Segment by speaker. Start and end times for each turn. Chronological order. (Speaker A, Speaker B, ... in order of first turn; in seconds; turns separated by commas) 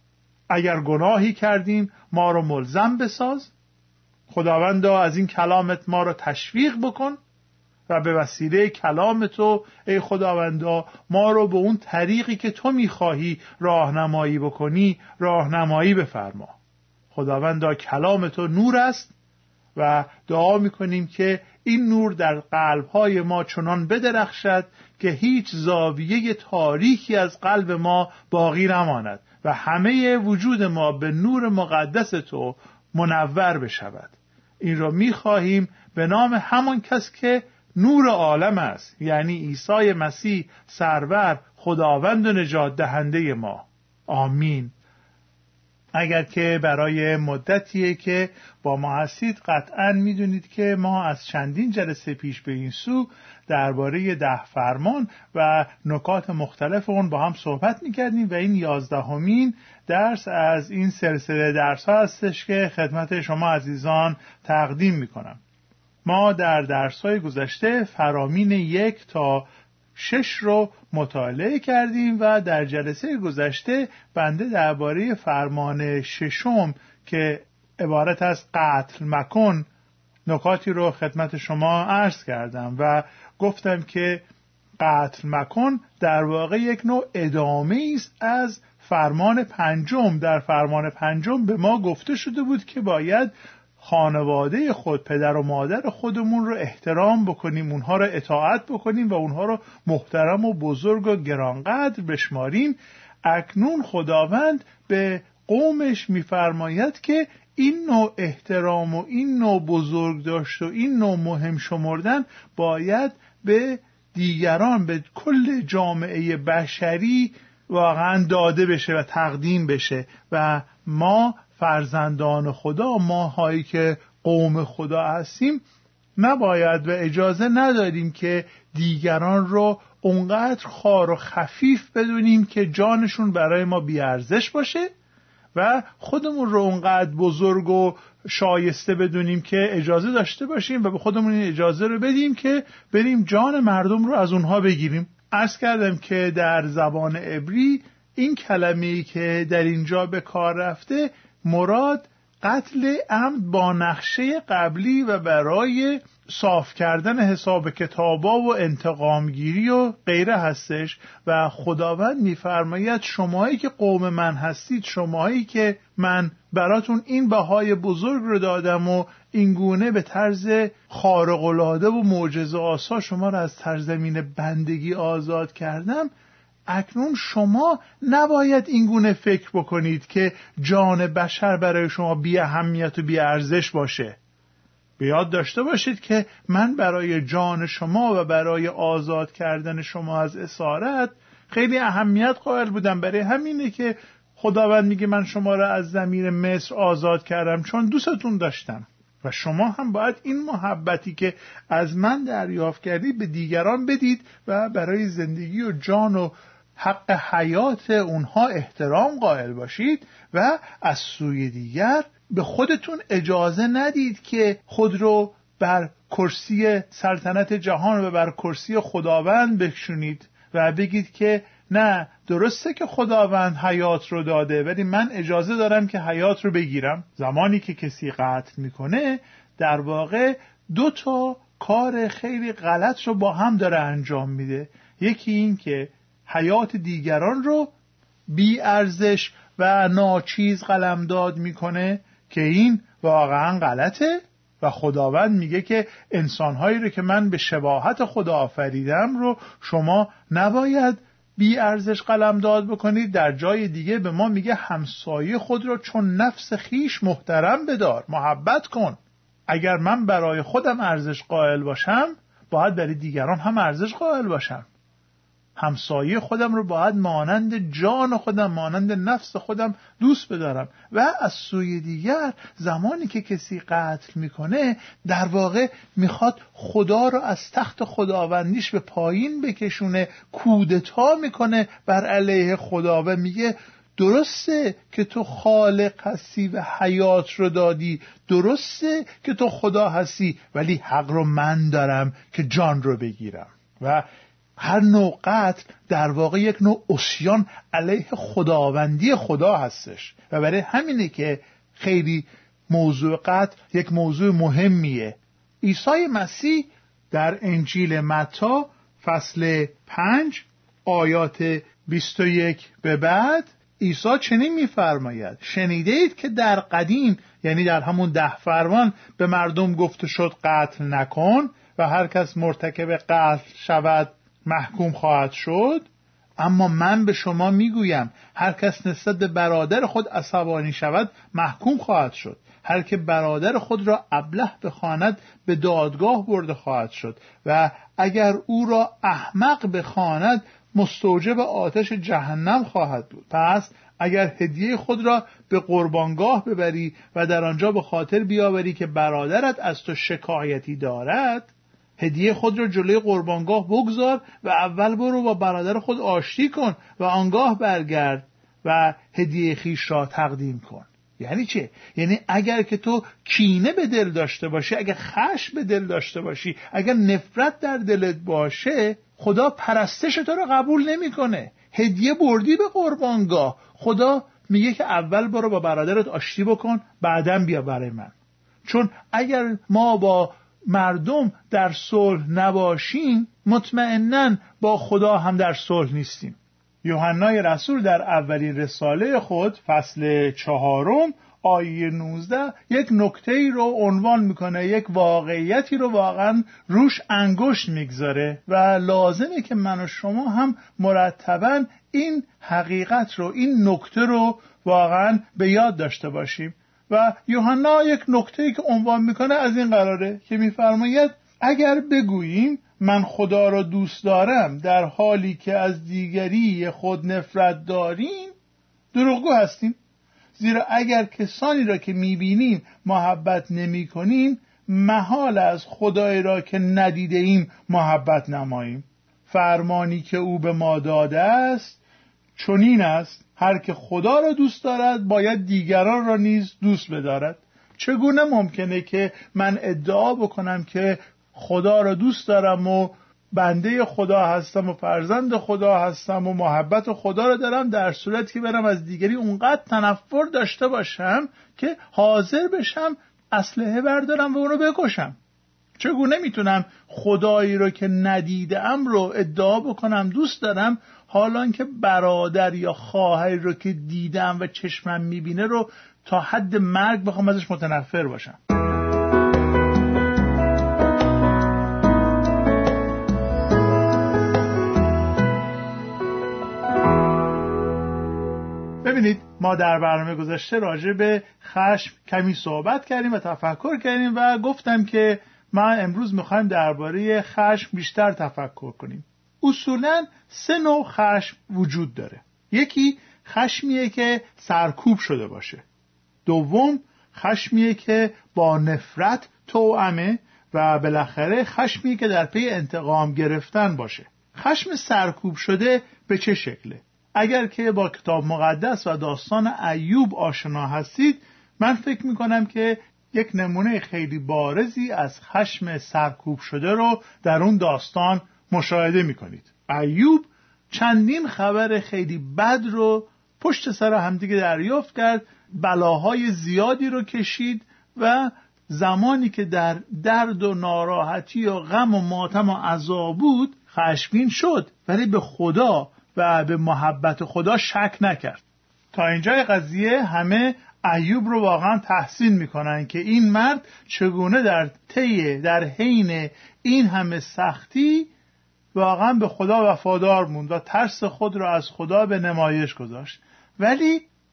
Speaker A: 0.5-3.5, Speaker A: 4.3-7.2, Speaker A: 7.9-16.5, Speaker A: 17.1-19.1, Speaker A: 19.7-44.7, Speaker A: 45.9-65.4, Speaker A: 66.0-79.7, Speaker A: 80.3-84.2, Speaker A: 84.8-125.6, Speaker A: 126.2-134.9, Speaker A: 135.5-176.1, Speaker A: 176.7-184.2, Speaker A: 185.0-237.7, Speaker A: 238.3-259.0, Speaker A: 259.5-264.6, Speaker A: 265.6-294.0, Speaker A: 294.6-325.9, Speaker A: 326.4-378.1, Speaker A: 378.6-418.3, Speaker A: 418.9-419.8, Speaker A: 420.3-431.8, Speaker A: 432.4-455.2, Speaker A: 455.8-468.4, Speaker A: 478.8-495.6, Speaker A: 496.2-548.1, Speaker A: 548.7-554.1